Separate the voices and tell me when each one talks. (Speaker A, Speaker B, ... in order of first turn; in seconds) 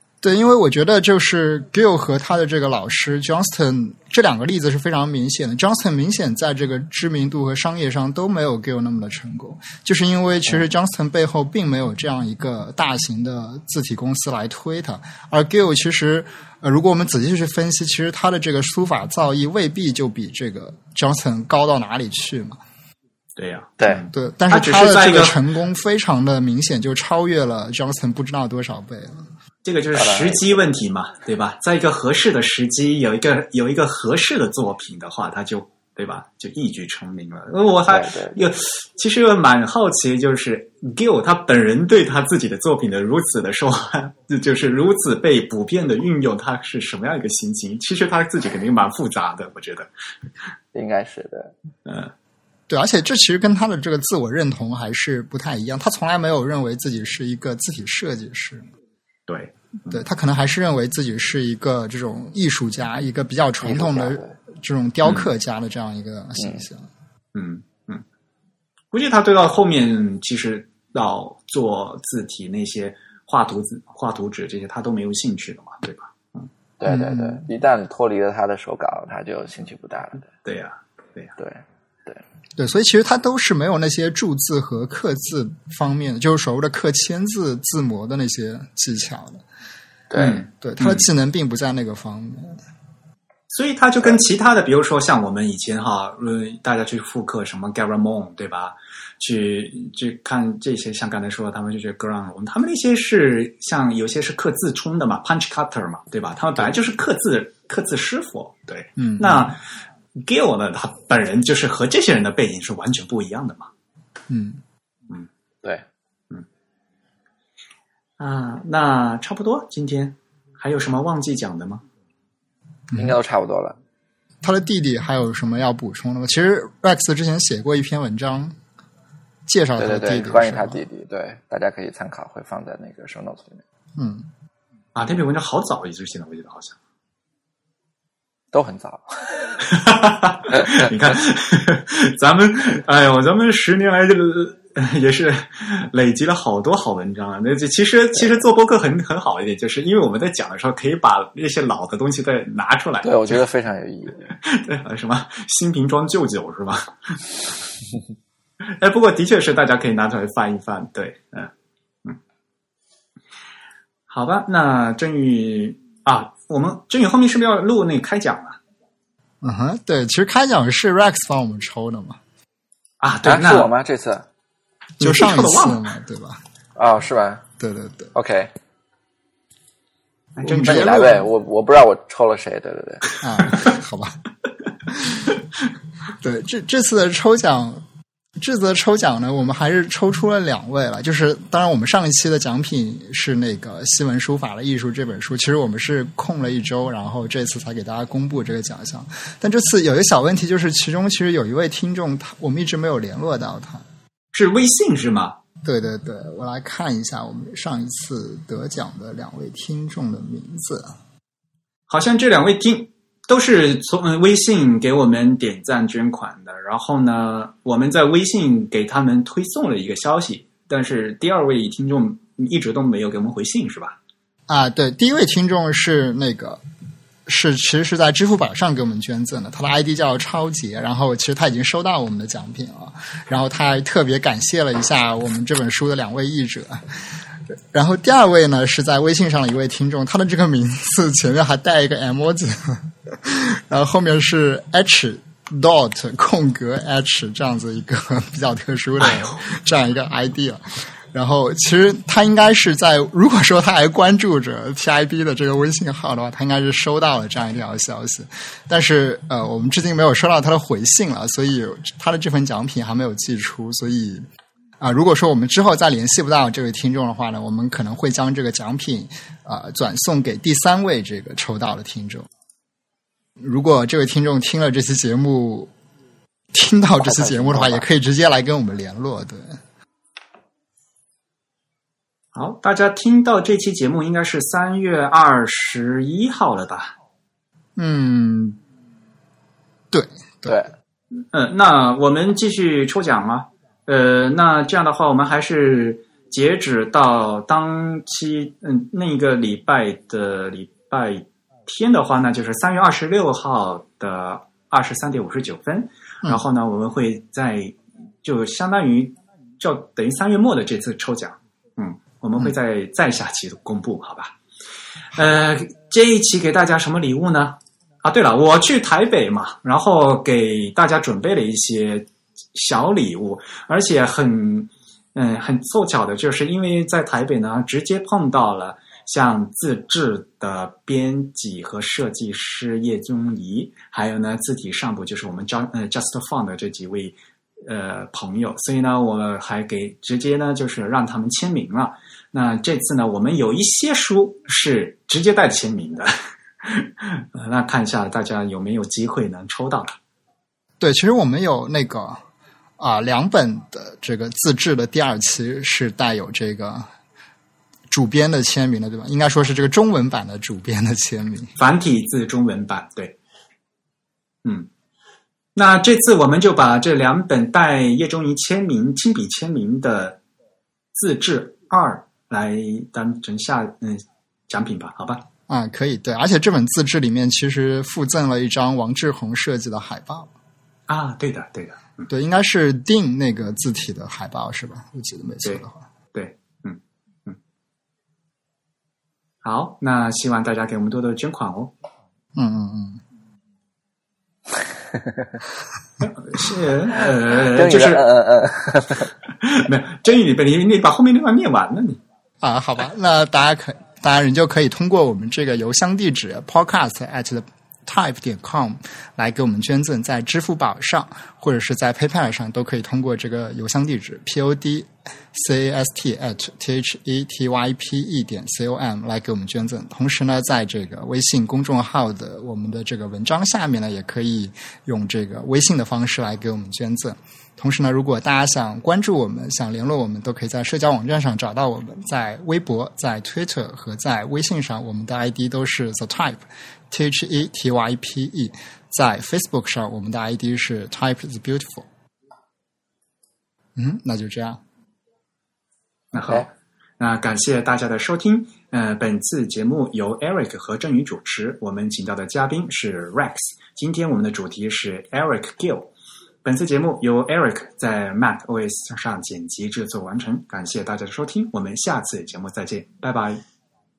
Speaker A: 0.2-22.6, 24.1-29.3, 52.7-58.6, 59.9-66.9, 76.9-77.5, 82.6-89.4, 90.6-92.6, 109.0-109.5, 114.3-114.6, 122.9-123.2, 124.4-128.6, 129.5-130.8, 134.0-134.3, 169.4-172.2, 175.0-176.4, 177.6-178.1, 180.4-181.3, 183.2-184.2, 184.9-185.3, 186.2-187.8, 188.4-203.8, 205.6-210.9, 224.5-226.6, 227.3-236.8, 237.7-264.2, 264.8-272.3, 273.4-275.7, 276.5-279.6, 287.8-288.6, 289.9-290.6, 350.8-352.2, 352.8-356.9, 357.9-361.5, 375.5-380.3, 382.1-385.8, 392.4-393.0, 402.4-441.9, 443.8-444.6
Speaker B: 23.4-25.4, 29.6-49.9, 51.9-52.1, 59.3-60.0, 65.0-65.3, 67.3-68.0, 68.9-76.5, 80.4-81.3, 90.2-91.1, 93.5-109.6, 110.2-113.7, 118.2-121.8, 134.9-136.8, 139.6-153.4, 154.4-157.2, 158.8-161.5, 164.1-168.6, 173.0-173.7, 175.0-175.9, 180.4-180.8, 204.3-205.4, 211.9-224.0, 249.0-249.4, 282.3-286.9, 291.3-314.4, 315.1-350.0, 361.6-363.2, 364.4-364.7, 365.6-370.2, 370.9-375.2, 380.9-382.1, 385.4-387.4, 389.4-391.7, 396.0-398.1, 399.4-402.0, 446.1-455.9, 456.4-463.4
Speaker C: 23.8-24.1, 29.9-30.5, 37.9-38.4, 50.7-51.5, 63.6-64.3, 66.4-66.7, 76.8-80.3, 81.4-82.2, 90.1-90.4, 123.0-123.8, 129.8-133.6, 138.5-139.6, 153.0-154.3, 173.2-174.3, 176.8-177.4, 178.1-178.5, 180.5-183.2, 277.0-277.9, 394.9-395.4, 397.0-399.1